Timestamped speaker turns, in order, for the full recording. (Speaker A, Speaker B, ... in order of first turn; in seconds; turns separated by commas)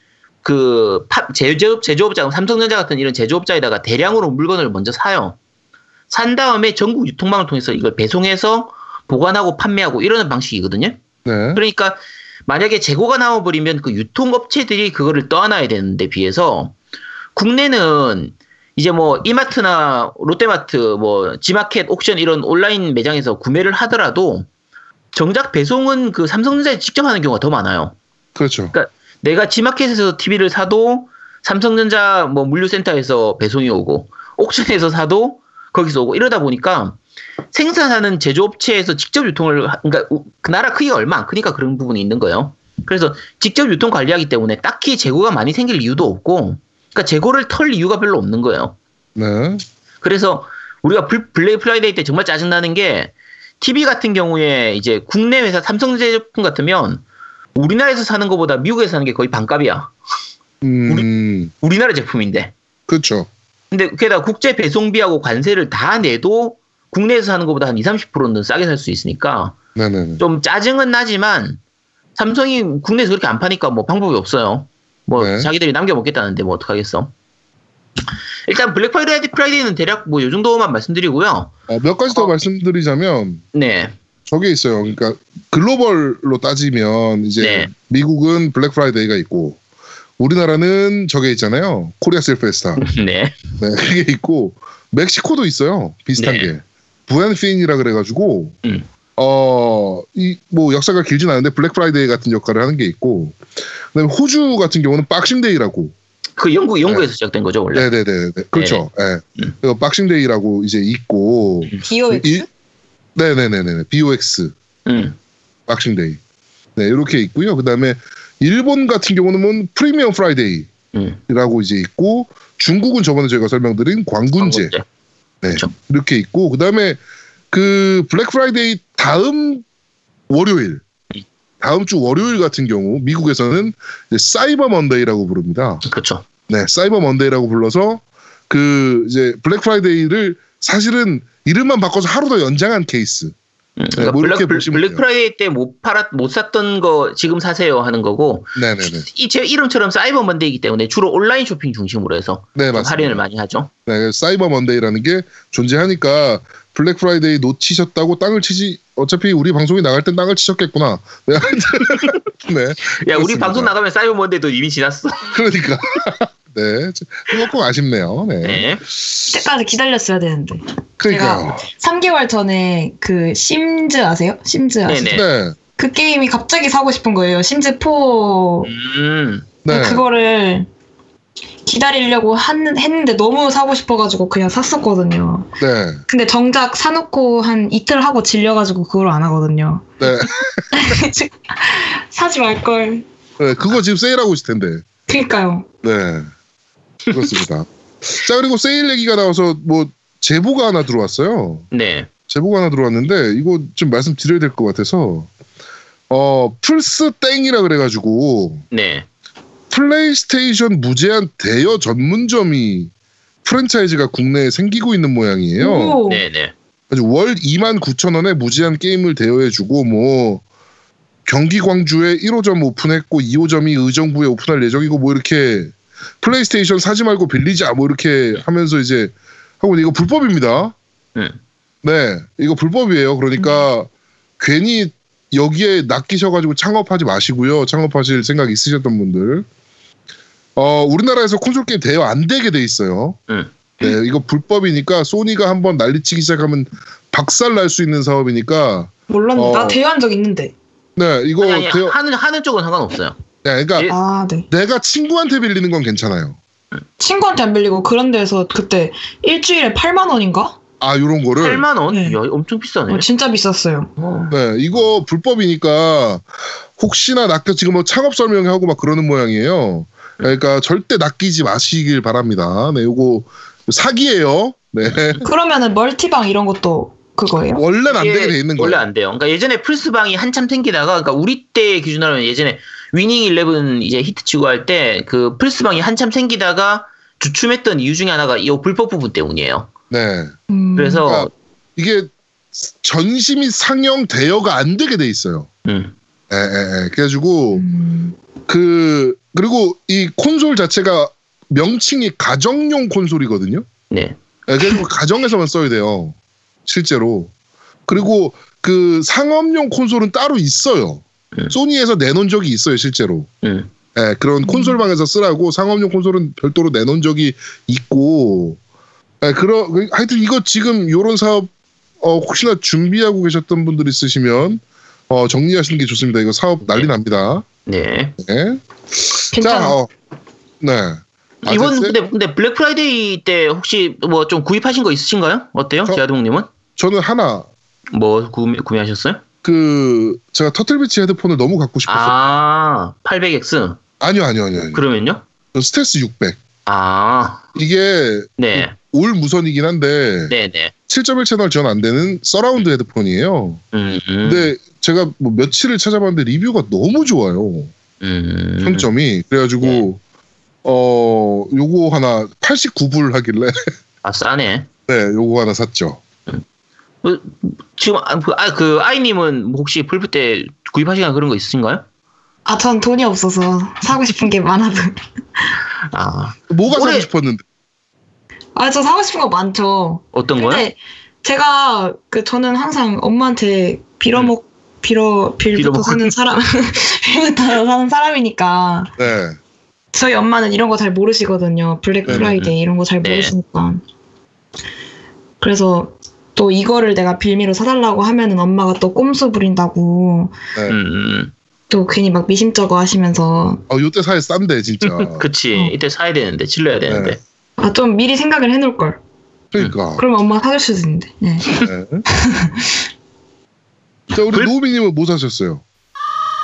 Speaker A: 0.4-5.3, Speaker A: 6.1-11.0, Speaker B: 11.2-11.6, Speaker A: 11.5-16.8, Speaker A: 17.3-24.5, Speaker A: 25.1-27.9, Speaker B: 28.3-28.7, Speaker A: 28.7-37.0, Speaker A: 37.5-48.8, Speaker B: 49.1-49.6, Speaker A: 50.0-57.0, Speaker A: 57.5-59.9, Speaker B: 60.6-61.5, Speaker A: 61.6-62.5, Speaker B: 62.9-63.3, Speaker A: 63.7-69.6, Speaker B: 69.7-70.2, Speaker A: 70.2-71.6, Speaker A: 72.2-77.1, Speaker B: 75.2-75.5, Speaker A: 78.5-81.5, Speaker B: 81.7-83.4, Speaker A: 83.5-83.9, Speaker B: 84.3-89.6, Speaker A: 87.4-87.7, Speaker B: 90.2-92.8, Speaker A: 92.8-93.4, Speaker B: 93.6-98.5, Speaker A: 96.2-96.5, Speaker B: 99.2-103.4, Speaker B: 103.9-105.9, Speaker A: 106.4-107.9, Speaker B: 107.7-112.5, Speaker A: 108.5-108.8, Speaker C: 111.8-112.5, Speaker B: 113.1-114.5, Speaker A: 114.8-115.2, Speaker B: 115.7-116.2, Speaker B: 116.8-120.7, Speaker A: 120.9-121.2, Speaker B: 121.3-124.7, Speaker A: 124.4-124.8, Speaker B: 125.4-127.0, Speaker B: 127.5-129.6, Speaker B: 130.3-130.8, Speaker B: 131.6-135.8, Speaker A: 135.8-136.2, Speaker B: 136.5-143.3, Speaker A: 143.8-153.7, Speaker B: 143.9-145.0, Speaker B: 148.6-149.1, Speaker B: 152.6-153.2, Speaker B: 153.8-163.7, Speaker A: 163.0-165.3, Speaker B: 165.3-169.2, Speaker A: 168.4-168.8, Speaker C: 169.3-175.2, Speaker B: 171.0-171.7, Speaker A: 174.8-175.2, Speaker B: 175.1-175.6, Speaker C: 175.8-178.7, Speaker A: 178.6-179.5, Speaker B: 179.6-180.0, Speaker C: 179.7-180.7, Speaker C: 181.7-185.5, Speaker B: 185.6-186.0, Speaker C: 186.1-189.9, Speaker B: 190.0-190.8, Speaker C: 190.7-193.0, Speaker B: 193.4-194.8, Speaker C: 195.1-195.7, Speaker B: 195.8-196.3, Speaker B: 197.1-201.7, Speaker A: 201.7-202.1, Speaker B: 202.3-205.3, Speaker B: 206.1-208.6, Speaker A: 208.7-209.1, Speaker B: 209.7-212.9, Speaker B: 213.4-216.0, Speaker C: 215.6-216.2, Speaker A: 216.1-216.5, Speaker B: 216.9-220.4, Speaker B: 221.2-230.8, Speaker B: 231.8-239.4, Speaker B: 240.6-243.2, Speaker A: 243.3-243.9, Speaker B: 243.8-249.8, Speaker C: 249.1-250.5, Speaker B: 250.9-251.9, Speaker A: 251.4-253.2, Speaker B: 253.4-253.9, Speaker C: 253.9-254.5, Speaker B: 254.5-256.4, Speaker C: 257.0-260.6, Speaker B: 260.8-261.6, Speaker A: 261.4-263.1, Speaker C: 261.9-262.2, Speaker C: 262.9-263.9, Speaker A: 264.0-264.3, Speaker B: 264.3-266.2, Speaker B: 266.8-275.2, Speaker C: 275.2-277.6, Speaker B: 277.5-278.8, Speaker A: 277.9-289.7, Speaker B: 289.9-290.3, Speaker C: 290.5-291.1, Speaker A: 290.8-291.3, Speaker B: 291.0-295.5, Speaker A: 295.6-295.9, Speaker B: 296.3-297.6, Speaker C: 297.5-298.1, Speaker B: 298.5-303.6, Speaker A: 303.9-304.2, Speaker B: 304.5-307.3, Speaker B: 307.9-313.3, Speaker A: 313.4-313.7, Speaker B: 313.9-318.6, Speaker C: 314.4-314.8, Speaker B: 319.2-327.4, Speaker A: 327.6-328.1, Speaker B: 328.2-329.9, Speaker C: 329.3-329.8, Speaker B: 330.6-331.9, Speaker A: 331.4-336.5, Speaker B: 336.8-337.5, Speaker A: 337.9-339.2, Speaker B: 339.4-342.1, Speaker A: 341.9-343.8, Speaker B: 344.0-344.8, Speaker A: 344.7-345.2, Speaker B: 345.5-346.4, Speaker A: 346.6-347.4, Speaker B: 347.5-350.3, Speaker A: 348.4-348.7, Speaker A: 350.3-350.7, Speaker B: 350.9-353.6, Speaker A: 353.7-354.5, Speaker B: 354.2-357.7, Speaker A: 358.0-358.9, Speaker B: 358.6-360.0, Speaker A: 359.6-359.9, Speaker B: 360.6-363.7, Speaker A: 364.0-364.7, Speaker B: 364.9-366.0, Speaker A: 367.0-371.8, Speaker C: 372.4-375.4, Speaker A: 375.9-377.1, Speaker B: 376.5-377.4, Speaker C: 378.5-388.9, Speaker A: 380.1-380.7, Speaker A: 385.5-386.1, Speaker B: 389.0-389.4, Speaker C: 389.9-393.8, Speaker B: 392.1-392.3, Speaker A: 392.1-393.3, Speaker C: 395.4-400.4, Speaker A: 400.7-401.3, Speaker C: 401.7-403.6, Speaker B: 403.7-405.2, Speaker A: 404.8-407.2, Speaker B: 406.9-407.2, Speaker C: 407.6-409.0, Speaker B: 409.5-410.0, Speaker C: 409.9-412.8, Speaker B: 411.6-412.0, Speaker B: 414.1-415.6